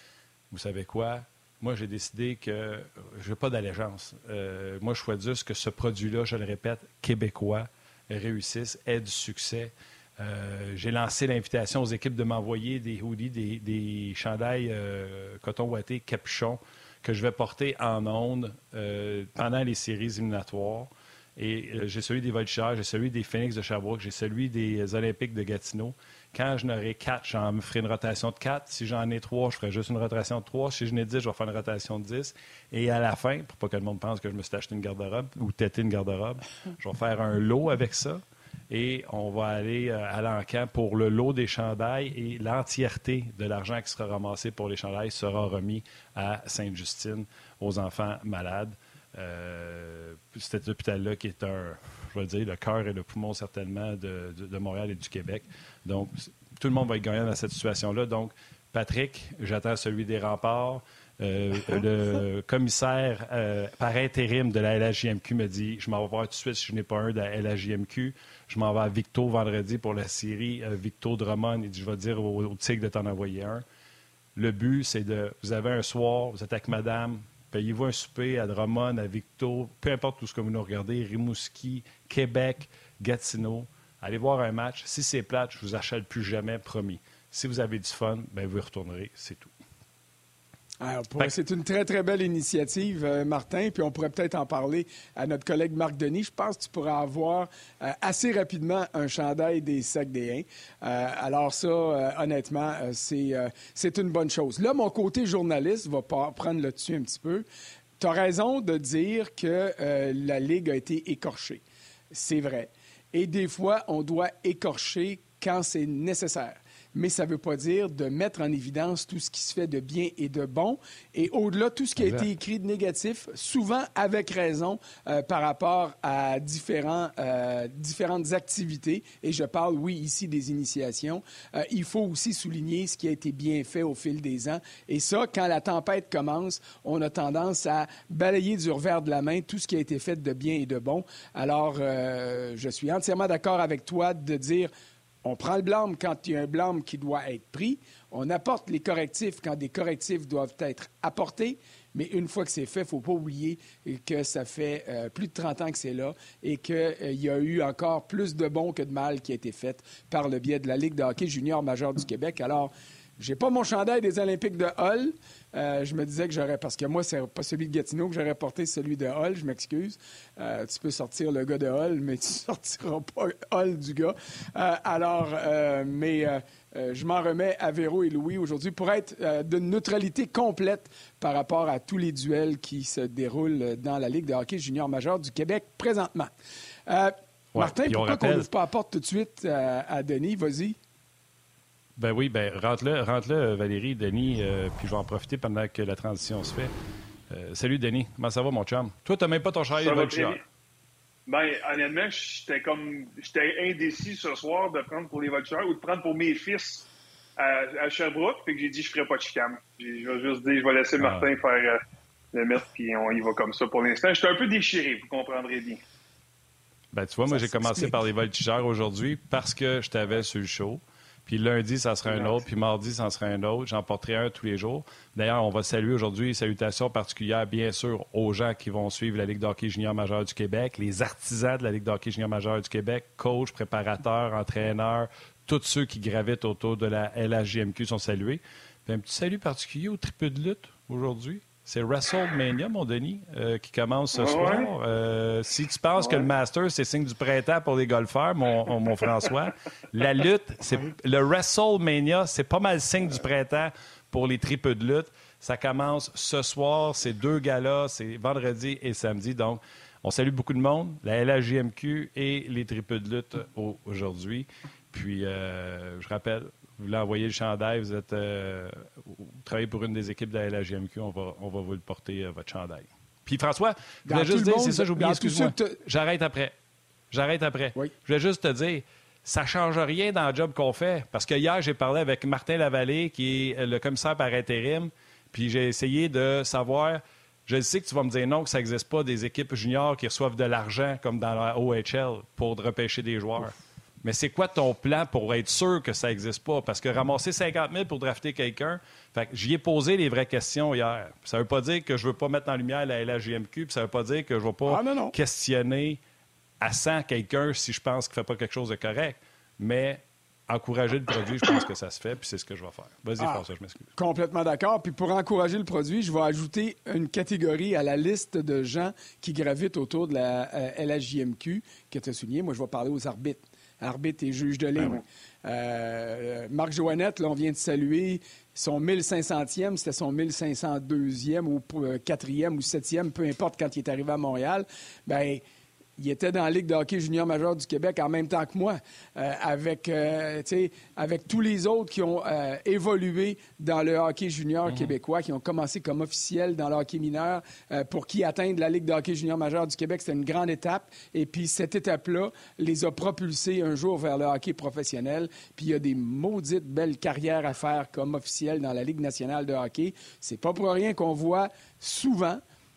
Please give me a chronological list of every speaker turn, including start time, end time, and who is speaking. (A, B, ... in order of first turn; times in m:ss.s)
0:00.5-1:13.6 A
1:14.4-1:29.5 A
1:30.8-1:47.4 B
1:48.0-2:24.7 B
2:02.0-2:02.2 A
2:25.2-3:06.3 B
3:06.9-3:10.8 B
3:07.5-3:08.5 A
3:12.0-3:16.7 A
3:17.3-3:20.4 A
3:19.8-3:20.4 C
3:21.3-3:26.8 C
3:27.4-3:31.8 C
3:31.0-3:31.3 A
3:32.3-3:35.8 C
3:36.9-4:36.5 A
3:37.3-3:37.9 B
3:42.1-3:42.4 C
4:04.1-4:04.7 C
4:34.0-4:35.8 B
4:37.1-5:06.0 A
5:04.7-5:05.1 B
5:06.6-5:13.9 A
5:14.0-5:35.4 B
5:36.0-6:02.4 B